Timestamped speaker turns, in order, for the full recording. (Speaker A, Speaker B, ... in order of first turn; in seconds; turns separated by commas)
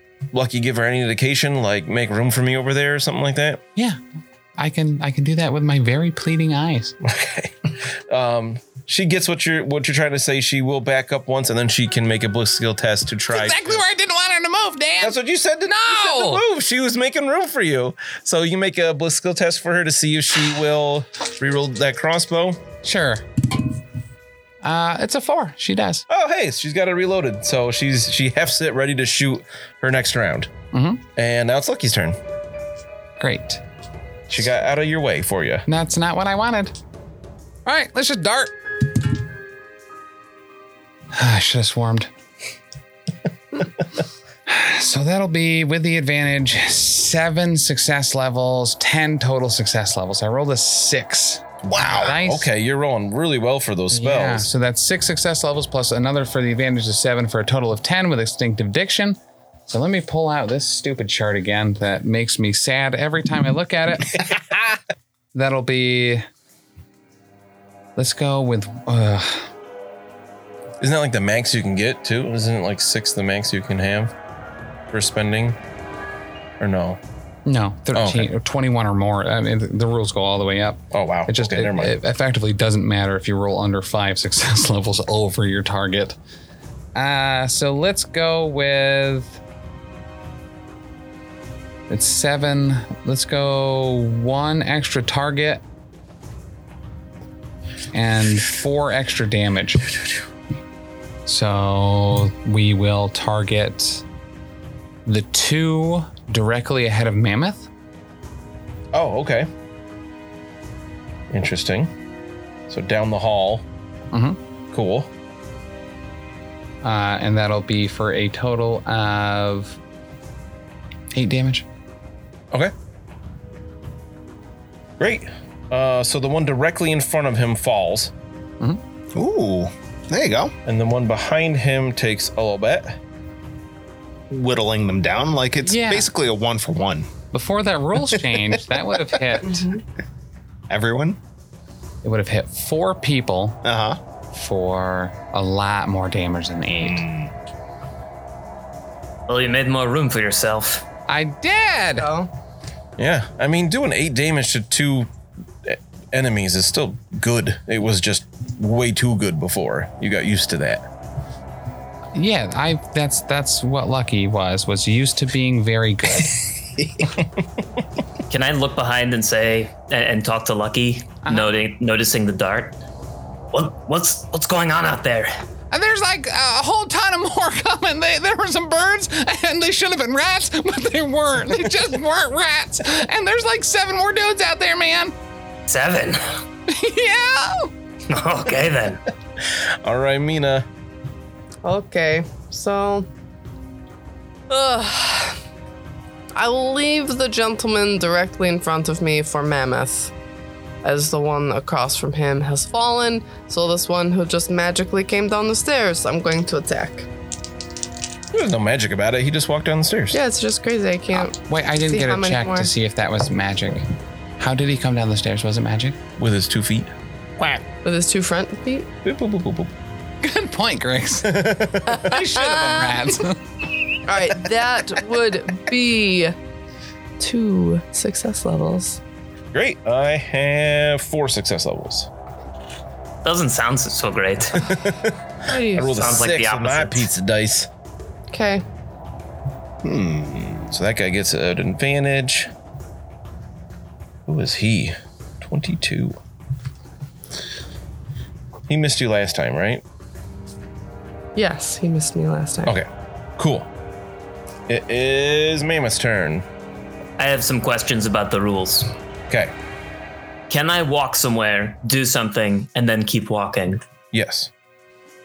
Speaker A: 0.3-3.6, Speaker B: 4.6-7.0, Speaker A: 7.0-13.8, Speaker B: 13.3-16.4, Speaker A: 15.0-22.6, Speaker B: 22.8-23.2, Speaker B: 24.6-26.1, Speaker A: 26.1-30.5, Speaker B: 30.7-31.0, Speaker A: 31.2-32.2, Speaker B: 33.2-33.6, Speaker A: 34.3-35.6, Speaker B: 35.7-36.8, Speaker B: 37.6-38.5, Speaker B: 41.1-42.1, Speaker B: 44.5-52.5, Speaker C: 51.6-52.2, Speaker A: 52.0-54.5, Speaker B: 53.9-64.2, Speaker B: 65.3-66.3, Speaker B: 68.0-69.5, Speaker A: 70.8-74.1, Speaker A: 74.9-75.6, Speaker A: 76.6-77.0, Speaker B: 77.5-86.2, Speaker A: 77.9-78.3, Speaker A: 80.9-82.0, Speaker B: 87.0-89.4, Speaker B: 91.9-95.6, Speaker B: 97.9-100.0, Speaker B: 101.3-104.0, Speaker B: 105.1-107.7, Speaker A: 108.9-109.5, Speaker A: 111.3-111.9, Speaker A: 112.7-113.7, Speaker B: 114.1-114.4, Speaker A: 114.7-115.1, Speaker B: 116.8-119.8, Speaker B: 121.1-121.7, Speaker A: 125.0-128.1, Speaker C: 129.2-130.6, Speaker A: 130.7-133.0, Speaker C: 134.3-137.1, Speaker B: 135.7-136.1, Speaker B: 137.3-139.7, Speaker C: 138.1-138.4, Speaker D: 139.5-139.8, Speaker C: 140.7-141.2, Speaker B: 142.0-143.6, Speaker C: 143.6-144.0, Speaker B: 144.3-147.1, Speaker C: 146.8-147.3, Speaker E: 149.3-150.9, Speaker B: 151.1-152.1, Speaker D: 152.0-152.3, Speaker A: 153.0-155.1, Speaker A: 155.6-160.9, Speaker B: 162.1-166.4, Speaker E: 168.3-172.8, Speaker B: 171.2-171.5, Speaker E: 173.5-175.4, Speaker B: 175.7-185.2, Speaker E: 185.7-186.4, Speaker B: 186.7-187.7, Speaker E: 188.1-189.0, Speaker A: 189.4-190.7, Speaker D: 191.6-193.1, Speaker D: 194.5-195.4, Speaker D: 196.4-200.1, Speaker D: 200.8-207.1, Speaker A: 208.3-210.2, Speaker D: 210.1-211.4, Speaker B: 211.2-213.8, Speaker D: 211.9-212.7, Speaker B: 214.4-216.0, Speaker A: 216.2-216.9, Speaker D: 217.8-218.9, Speaker A: 219.0-219.7, Speaker B: 220.2-223.4, Speaker A: 221.2-222.1, Speaker D: 221.9-223.0, Speaker D: 224.1-226.3, Speaker D: 227.2-229.0, Speaker A: 229.5-232.1, Speaker E: 233.2-234.7, Speaker A: 234.5-237.7, Speaker D: 235.5-236.0, Speaker E: 235.9-237.1, Speaker D: 238.3-238.6, Speaker C: 239.8-240.7, Speaker A: 240.7-242.5, Speaker A: 244.3-246.2, Speaker A: 248.7-249.8, Speaker D: 251.4-252.7, Speaker A: 252.7-253.7, Speaker A: 254.7-256.5, Speaker E: 257.2-258.9, Speaker E: 260.5-263.8, Speaker A: 264.1-264.5